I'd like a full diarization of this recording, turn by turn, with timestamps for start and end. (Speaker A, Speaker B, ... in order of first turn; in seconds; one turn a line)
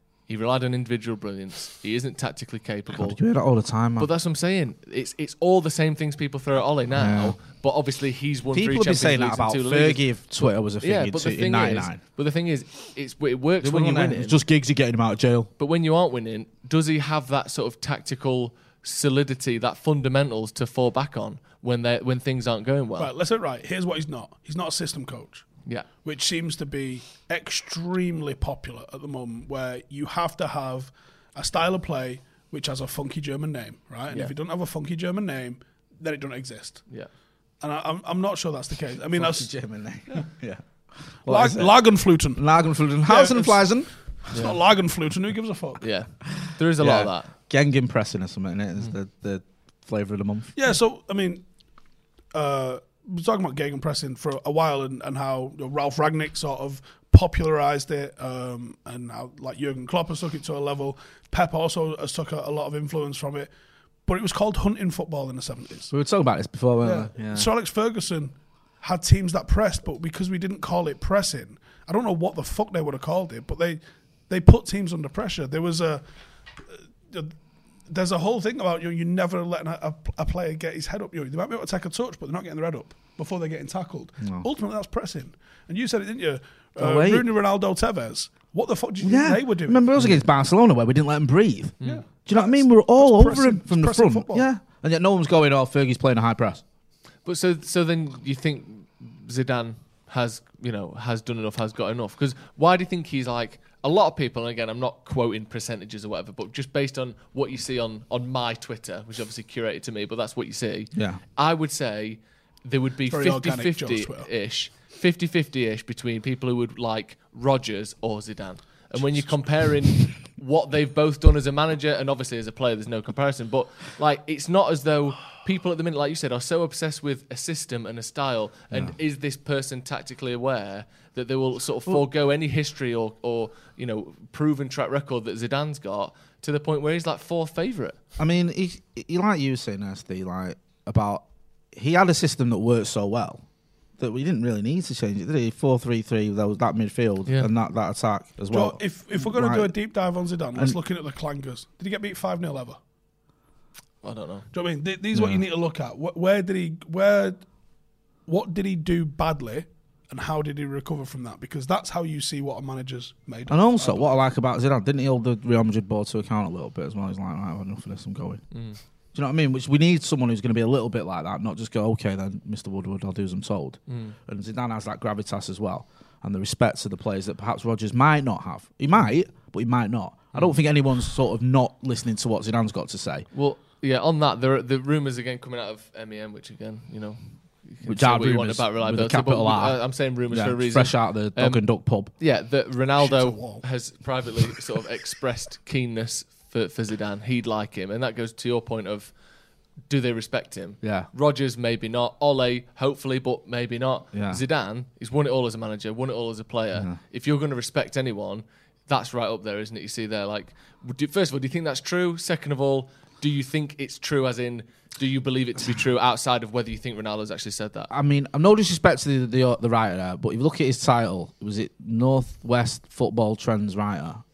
Speaker A: 0.3-3.2
Speaker B: 2.9-4.1
Speaker A: 4.0-10.0
Speaker B: 6.9-7.4
Speaker B: 8.5-12.0
Speaker A: 10.8-14.4
Speaker B: 13.6-15.5
Speaker A: 15.6-23.1
Speaker C: 23.0-25.5
Speaker C: 26.0-36.8
Speaker C: 37.6-39.5
Speaker B: 39.1-41.8
Speaker C: 41.2-42.4
Speaker B: 42.3-43.9
Speaker C: 43.0-45.8
Speaker A: 44.3-44.6
Speaker A: 45.8-47.3
Speaker B: 46.8-50.5
Speaker C: 50.5-51.4
Speaker C: 52.3-63.5
Speaker C: 64.1-65.9
Speaker B: 65.9-67.5
Speaker C: 66.8-76.0
Speaker C: 76.6-77.3
Speaker C: 77.9-89.8
Speaker B: 84.2-84.5
Speaker B: 86.8-87.3
Speaker B: 89.0-96.6
Speaker C: 91.8-94.5
Speaker A: 97.2-138.0
Speaker B: 110.9-111.2
Speaker C: 113.1-114.3
Speaker B: 138.2-143.4
Speaker B: 144.0-149.7
Speaker C: 148.5-152.8
Speaker A: 154.0-154.5
Speaker C: 154.5-157.4
Speaker B: 155.1-155.4
Speaker C: 158.3-164.2
Speaker B: 163.5-168.4
Speaker A: 168.5-168.8
Speaker B: 169.1-183.3
Speaker A: 173.9-174.1
Speaker A: 183.3-199.1
Speaker B: 187.8-192.1
Speaker C: 193.0-193.6
Speaker A: 199.9-217.9
Speaker B: 200.8-201.1
Speaker B: 204.1-204.4
Speaker B: 217.9-224.2